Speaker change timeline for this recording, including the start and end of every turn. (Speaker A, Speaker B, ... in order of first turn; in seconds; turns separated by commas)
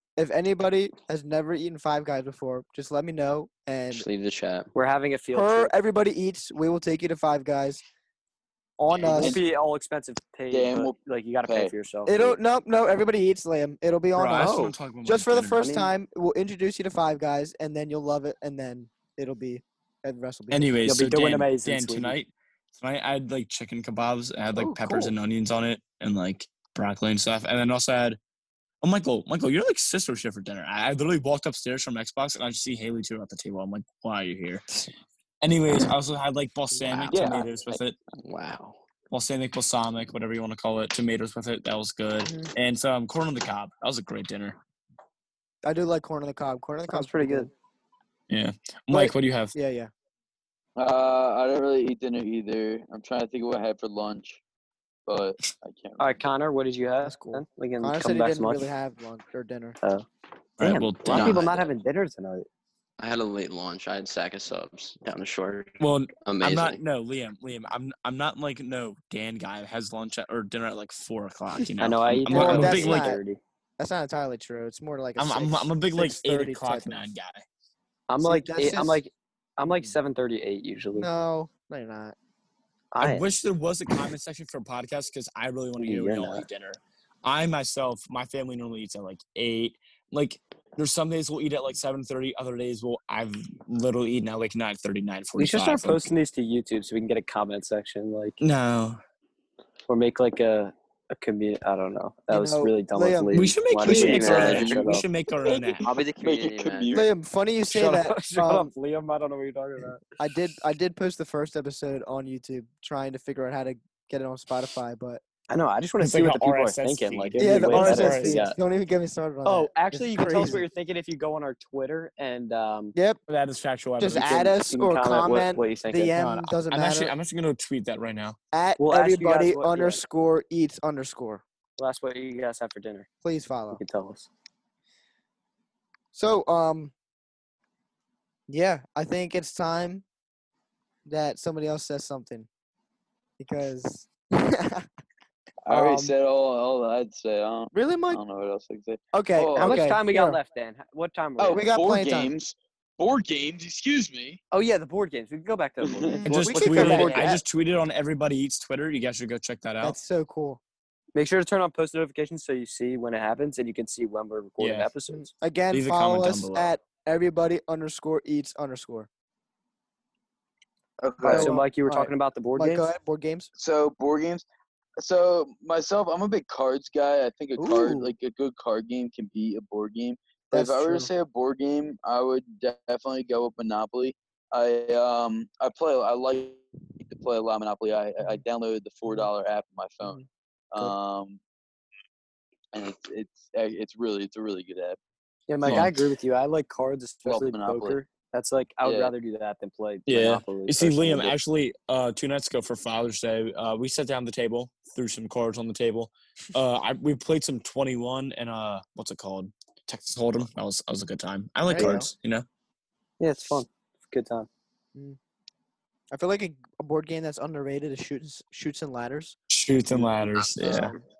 Speaker A: 0.2-4.1, Speaker B: 3.9-4.7, Speaker C: 4.7-5.7, Speaker A: 5.3-7.8, Speaker A: 8.8-9.4, Speaker C: 9.1-12.4, Speaker D: 9.1-9.4, Speaker D: 10.5-11.7, Speaker A: 12.1-20.8, Speaker E: 14.1-15.6, Speaker C: 15.6-15.9, Speaker E: 20.5-28.2, Speaker C: 20.9-22.2, Speaker A: 24.6-25.1, Speaker E: 28.8-34.6, Speaker E: 35.4-38.0, Speaker B: 37.1-38.8, Speaker D: 37.1-37.4, Speaker E: 39.1-44.6, Speaker A: 42.2-42.5, Speaker A: 45.6-47.5, Speaker C: 46.9-47.5, Speaker E: 48.3-49.5, Speaker A: 48.9-49.9, Speaker D: 50.8-54.4, Speaker D: 55.1-56.2, Speaker C: 56.0-58.7, Speaker A: 57.0-59.8, Speaker E: 60.6-61.5, Speaker C: 60.6-62.5, Speaker B: 61.1-61.7, Speaker B: 63.0-66.8, Speaker E: 65.8-73.1, Speaker C: 71.8-73.4, Speaker A: 72.3-73.2, Speaker A: 73.8-77.1, Speaker E: 75.2-77.5, Speaker C: 78.1-81.1, Speaker A: 78.2-79.0, Speaker A: 81.0-82.2, Speaker C: 82.9-83.3, Speaker E: 83.0-96.2, Speaker C: 85.8-86.5, Speaker C: 95.4-98.4, Speaker E: 98.4-99.0, Speaker C: 99.9-105.1, Speaker A: 102.3-103.5, Speaker E: 103.3-105.9, Speaker B: 103.8-104.8, Speaker D: 105.5-107.1, Speaker B: 105.8-107.0, Speaker A: 106.9-108.7, Speaker C: 107.7-110.0, Speaker A: 110.2-115.2, Speaker C: 115.5-118.6, Speaker E: 116.0-118.5, Speaker A: 117.4-120.7, Speaker C: 119.4-123.0, Speaker A: 123.0-123.2, Speaker E: 123.3-124.5, Speaker A: 124.0-127.1, Speaker C: 124.1-126.5, Speaker E: 126.2-128.4, Speaker A: 128.5-131.4, Speaker C: 128.8-130.0, Speaker C: 131.8-133.1, Speaker A: 133.2-133.8, Speaker C: 133.7-134.3, Speaker A: 136.1-136.9, Speaker A: 138.5-140.0, Speaker A: 141.1-142.5, Speaker A: 143.4-144.9, Speaker D: 145.7-149.9, Speaker A: 145.7-146.1, Speaker A: 147.7-148.2, Speaker A: 149.1-150.4, Speaker C: 149.6-151.7, Speaker D: 151.4-154.4, Speaker A: 151.5-152.3, Speaker C: 154.5-157.3, Speaker D: 155.8-156.2, Speaker A: 156.1-157.4, Speaker E: 156.3-160.0, Speaker A: 159.8-160.6, Speaker C: 161.2-165.3, Speaker E: 164.6-164.9, Speaker A: 165.1-169.1, Speaker E: 165.7-166.8, Speaker D: 171.0-171.6, Speaker C: 171.2-172.9, Speaker A: 171.3-173.5, Speaker D: 173.6-174.4, Speaker D: 175.0-191.4, Speaker A: 177.6-178.1, Speaker A: 180.5-181.1, Speaker D: 192.7-195.0, Speaker C: 195.5-201.4, Speaker E: 195.7-195.9, Speaker D: 197.2-198.0, Speaker D: 198.8-199.1, Speaker E: 200.1-212.5, Speaker A: 211.7-212.1, Speaker C: 211.8-212.0, Speaker C: 213.2-214.5, Speaker A: 216.1-219.4, Speaker E: 219.5-220.9, Speaker B: 220.3-221.0, Speaker C: 220.7-221.0